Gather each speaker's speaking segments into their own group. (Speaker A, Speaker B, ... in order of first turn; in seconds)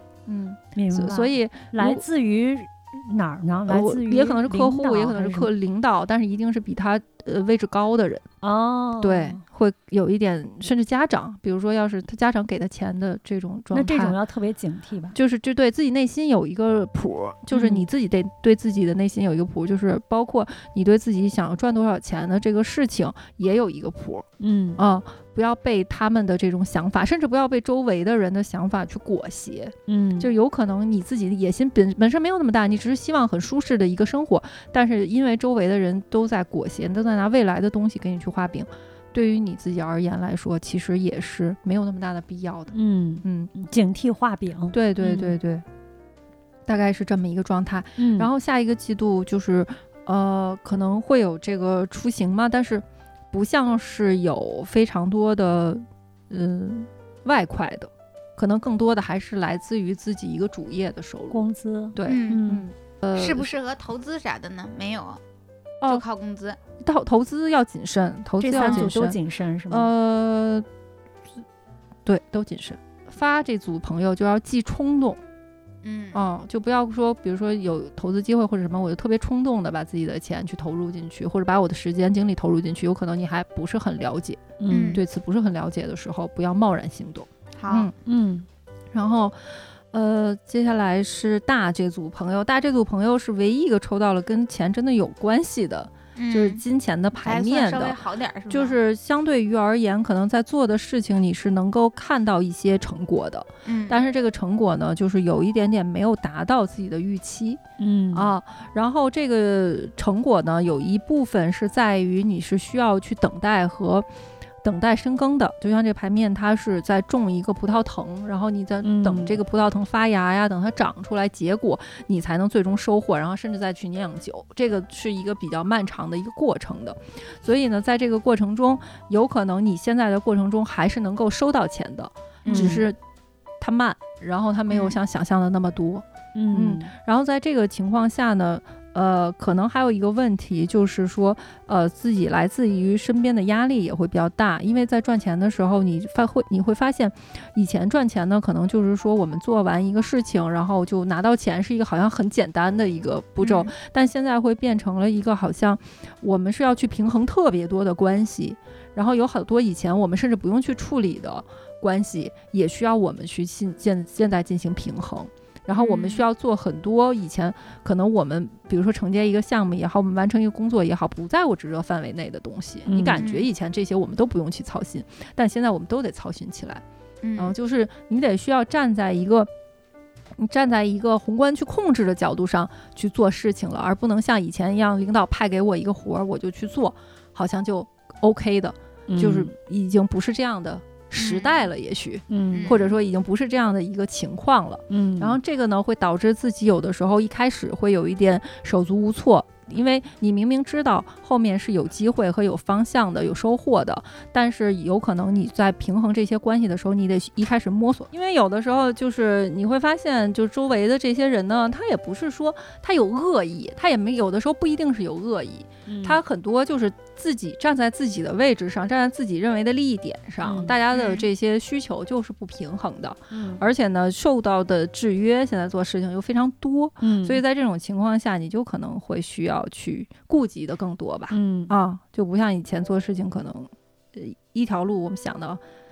Speaker A: 0.2-2.0, 3.7-8.2, 9.0-14.2, 15.1-42.7, 43.2-43.5, 44.7-45.6, 46.6-61.4, 61.9-63.5, 66.8-69.2, 69.7-70.7, 72.0-75.2, 76.1-87.9, 88.9-98.0, 98.5-107.6, 108.1-114.1, 114.6-133.0, 133.6-176.8, 177.3-179.5, 180.4-235.6
Speaker B: 0.8-5.5, 8.4-9.4, 13.7-15.2, 17.5-17.9, 24.4-24.8, 29.9-30.3, 42.7-45.4, 48.0-48.3, 61.3-62.7, 68.4-69.9, 84.6-85.0, 88.0-88.5, 107.8-108.3, 118.8-119.4, 132.5-132.8, 136.3-136.9, 172.9-173.2, 189.1-189.5, 192.3-192.8, 194.9-195.4, 215.9-216.2, 220.4-220.8, 223.3-223.6, 227.0-227.4, 231.3-231.7
Speaker C: 62.0-62.5, 63.1-65.2, 65.8-66.6, 75.8-76.2, 84.7-85.0, 87.6-87.9, 96.2-96.6, 97.2-98.8, 103.7-104.0, 132.4-132.8, 134.7-135.0, 153.4-153.7, 165.7-166.2, 173.2-173.5, 177.2-177.5, 191.2-191.6, 192.5-193.0, 220.9-221.3